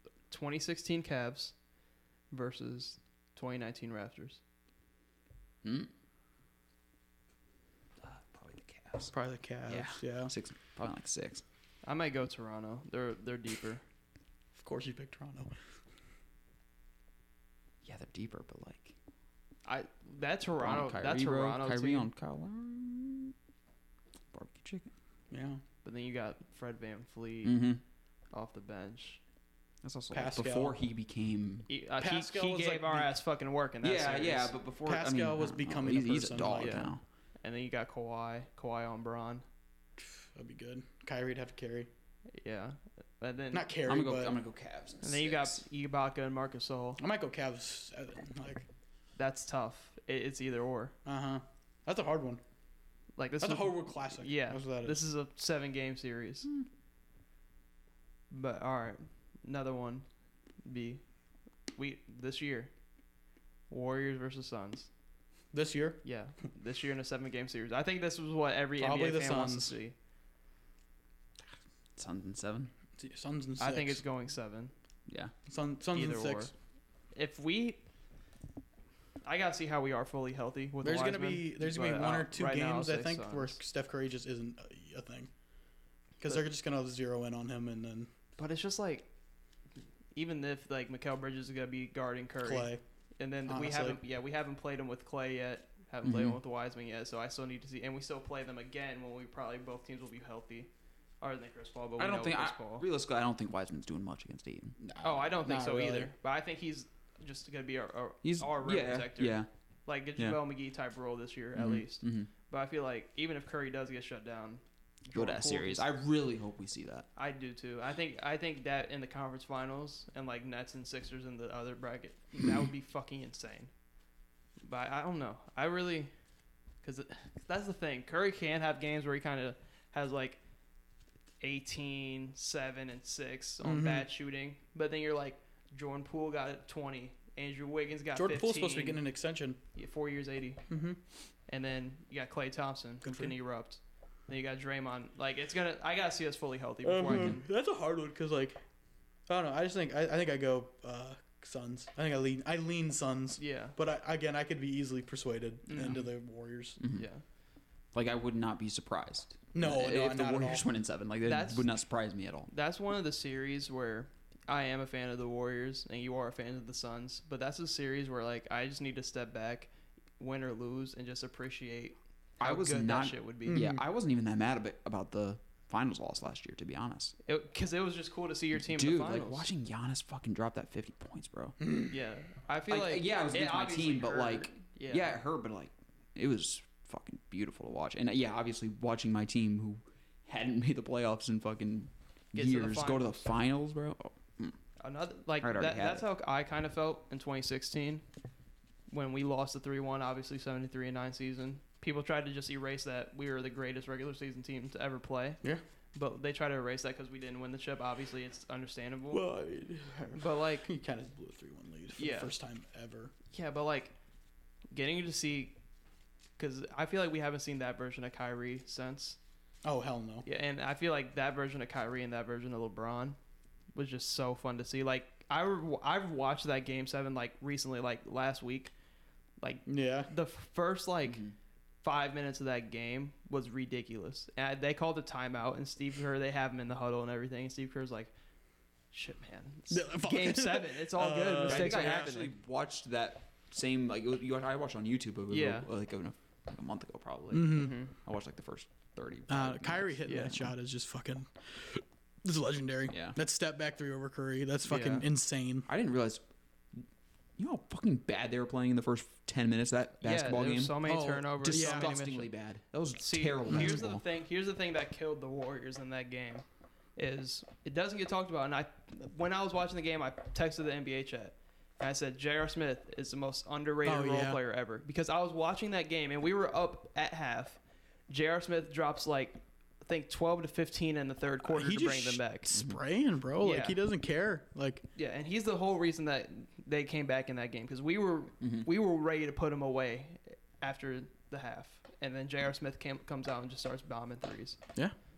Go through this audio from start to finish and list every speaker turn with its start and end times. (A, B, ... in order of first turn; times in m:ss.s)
0:00.3-0:01.5 A
0:02.3-0:04.4 A
0:05.6-0:05.9 B
0:08.0-0:09.1 B
0:09.1-0:10.3 C
0:09.7-0:11.4 B
0:11.8-0:13.8 A
0:14.5-0:15.5 C
0:17.8-0:18.9 B
0:19.6-0:22.1 A
0:20.6-0:23.3 B
0:24.3-0:24.9 B
0:25.3-0:25.6 C
0:25.8-0:27.7 A
0:27.4-0:27.8 B
0:28.3-0:29.2 A
0:29.8-0:31.7 B
0:30.1-0:30.8 C
0:31.7-0:34.6 A
0:32.0-0:33.1 C
0:33.8-0:37.0 B
0:34.8-0:36.8 C
0:36.6-0:36.9 A
0:37.4-0:39.4 A
0:40.2-0:41.9 C
0:42.4-0:43.7 A
0:43.5-0:44.4 C
0:43.8-0:45.6 B
0:45.0-0:47.0 A
0:47.0-0:48.6 C
0:49.2-0:50.9 A
0:51.0-0:52.4 C
0:53.2-0:56.5 A
0:53.4-0:55.0 C
0:58.3-1:00.0 A
1:00.6-1:01.0 A
1:01.7-1:02.7 A
1:03.7-1:04.9 A
1:05.5-1:06.0 C
1:06.0-1:09.9 A
1:08.8-1:09.7 C
1:12.0-1:12.7 B
1:13.0-1:14.0 C
1:13.6-1:14.7 A
1:15.1-1:15.3 B
1:15.4-1:16.5 C
1:15.9-1:16.5 A
1:17.1-1:17.8 A
1:19.2-1:23.6 A
1:20.8-1:25.3 C
1:26.2-1:28.1 C
1:28.4-1:29.1 A
1:30.1-1:40.7 A
1:32.4-1:32.8 C
1:33.5-1:34.0 C
1:36.0-1:36.4 B
1:41.2-1:42.8 A
1:42.0-1:44.8 B
1:44.8-1:46.1 C
1:45.0-1:55.9 A
1:48.2-1:49.5 B
1:51.5-1:52.3 B
1:55.1-1:57.0 B
1:57.1-2:03.7 A
2:04.6-2:06.1 A
2:06.8-2:10.4 A
2:11.4-2:19.0 A
2:13.6-2:14.1 C
2:18.1-2:19.6 C
2:19.7-2:20.6 A
2:20.7-2:21.0 C
2:21.5-2:27.5 A
2:23.0-2:23.3 C
2:26.8-2:28.6 C
2:27.1-2:27.4 B
2:29.3-2:36.8 C
2:33.4-2:33.8 A
2:35.6-2:36.1 A
2:36.8-2:37.0 B
2:36.9-2:37.2 A
2:37.9-2:42.5 B
2:39.5-2:40.7 C
2:41.2-2:41.7 A
2:42.5-2:53.7 A
2:52.4-2:57.1 B
2:53.4-2:53.8 C
2:57.2-2:59.5 A
2:58.5-3:01.6 B
3:01.6-3:01.9 C
3:01.9-3:05.1 A
3:02.7-3:14.6 B
3:12.3-3:13.2 A
3:14.8-3:18.0 A
3:15.4-3:16.0 B
3:18.9-3:25.4 A
3:25.9-3:29.2 A
3:29.1-3:33.1 C
3:30.1-3:30.7 A
3:32.0-3:32.3 A
3:33.3-3:33.9 A
3:34.7-3:35.6 A
3:36.4-3:39.2 A
3:39.6-3:40.2 C
3:40.2-3:43.2 A
3:43.7-3:48.7 A
3:49.4-3:51.2 A
3:49.6-3:50.1 C
3:51.0-3:51.3 B
3:51.8-3:58.1 A
3:58.9-4:02.3 A
3:59.7-4:02.2 C
4:01.4-4:09.9 B
4:05.3-4:05.7 A
4:07.3-4:07.8 C
4:07.5-4:07.9 A
4:09.3-4:15.7 C
4:10.0-4:10.4 A
4:12.9-4:13.2 B
4:14.7-4:15.0 A
4:15.7-4:16.2 B
4:17.4-4:20.8 B
4:20.0-4:22.3 A
4:20.8-4:21.9 C
4:21.4-4:24.0 B
4:23.0-4:26.4 A
4:27.0-4:42.6 A
4:33.8-4:34.4 C
4:41.4-4:44.8 C
4:43.4-4:43.8 A
4:44.9-4:54.6 A
4:48.4-4:48.7 B